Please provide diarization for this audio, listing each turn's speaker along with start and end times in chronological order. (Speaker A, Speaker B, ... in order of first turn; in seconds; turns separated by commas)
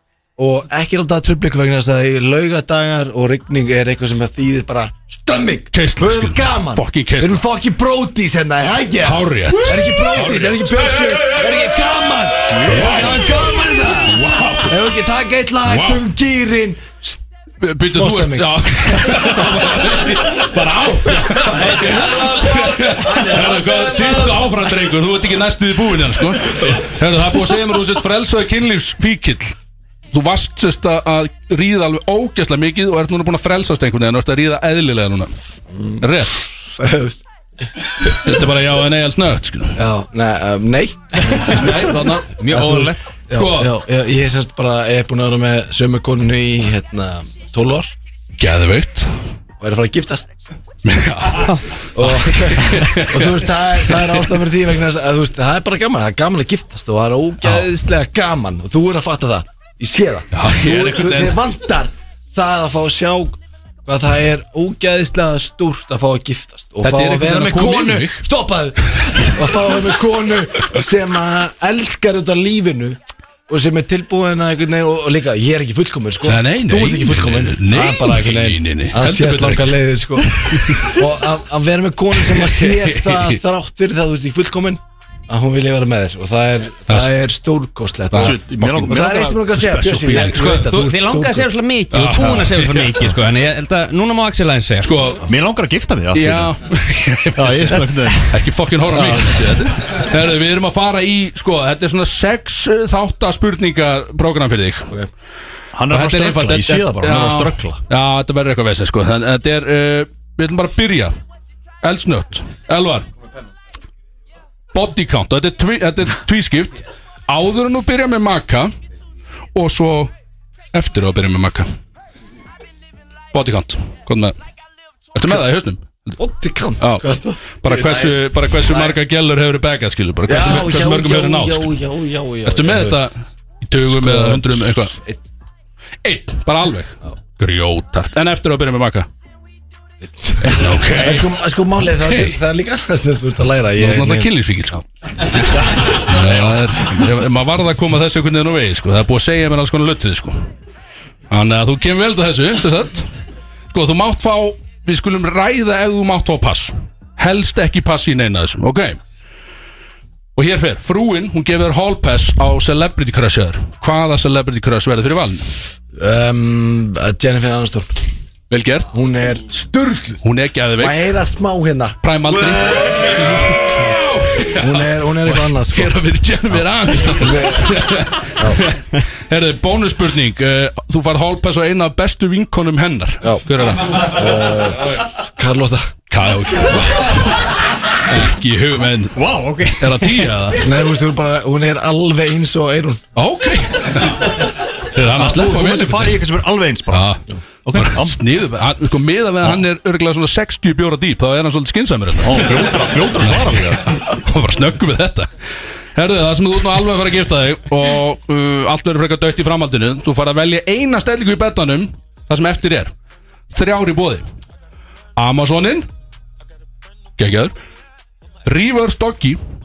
Speaker A: 0.4-17.2, Speaker B: 5.7-7.5, Speaker B: 9.0-14.8, Speaker B: 15.7-16.1, Speaker B: 17.6-29.6, Speaker A: 17.9-19.9, Speaker A: 21.5-24.5, Speaker B: 30.1-35.3, Speaker A: 35.8-36.0, Speaker B: 36.0-36.4, Speaker A: 36.8-37.2, Speaker B: 38.1-39.8, Speaker A: 39.8-42.0, Speaker B: 41.3-42.3, Speaker C: 42.4-43.1, Speaker A: 42.5-47.9, Speaker B: 43.3-43.8, Speaker B: 48.4-49.1, Speaker A: 49.6-50.3, Speaker B: 50.9-54.3, Speaker A: 52.0-91.5, Speaker B: 57.4-57.7, Speaker B: 60.3-61.4, Speaker B: 66.8-68.2, Speaker B: 76.3-81.0, Speaker B: 82.2-83.4, Speaker B: 86.9-87.2, Speaker B: 88.1-90.8, Speaker D: 88.2-89.4, Speaker C: 90.2-95.1, Speaker B: 91.9-93.2, Speaker D: 92.2-92.5, Speaker B: 94.8-95.3, Speaker D: 95.2-96.5, Speaker B: 96.1-104.9, Speaker D: 97.4-99.6, Speaker D: 105.7-107.8, Speaker B: 105.9-111.1, Speaker B: 111.8-113.1, Speaker B: 114.7-118.7, Speaker B: 119.5-120.1, Speaker B: 120.7-121.7, Speaker B: 123.3-124.3, Speaker B: 125.2-126.1, Speaker A: 126.2-129.0, Speaker B: 126.8-131.7, Speaker A: 130.3-133.0, Speaker B: 132.4-135.0, Speaker A: 133.9-135.2, Speaker B: 136.0-139.1, Speaker A: 140.0-144.3, Speaker B: 140.4-142.4, Speaker B: 143.8-150.5, Speaker A: 145.4-146.4, Speaker B: 151.3-153.1, Speaker B: 153.7-159.0, Speaker B: 160.4-165.5, Speaker A: 165.9-167.9, Speaker B: 168.5-168.9, Speaker A: 168.9-170.2, Speaker B: 170.2-171.1, Speaker A: 170.8-173.9, Speaker B: 172.0-184.1, Speaker A: 174.6-176.0, Speaker A: 176.5-177.9, Speaker A: 183.9-185.9, Speaker B: 186.1-189.2, Speaker C: 189.3-190.1, Speaker B: 189.7-190.6, Speaker A: 190.6-193.0, Speaker B: 193.2-196.2, Speaker D: 195.1-197.1, Speaker B: 196.9-205.3, Speaker D: 197.7-198.2, Speaker D: 202.2-203.9, Speaker B: 206.0-212.9, Speaker B: 213.5-214.2, Speaker B: 215.2-215.9, Speaker B: 217.2-217.5, Speaker B: 218.5-219.4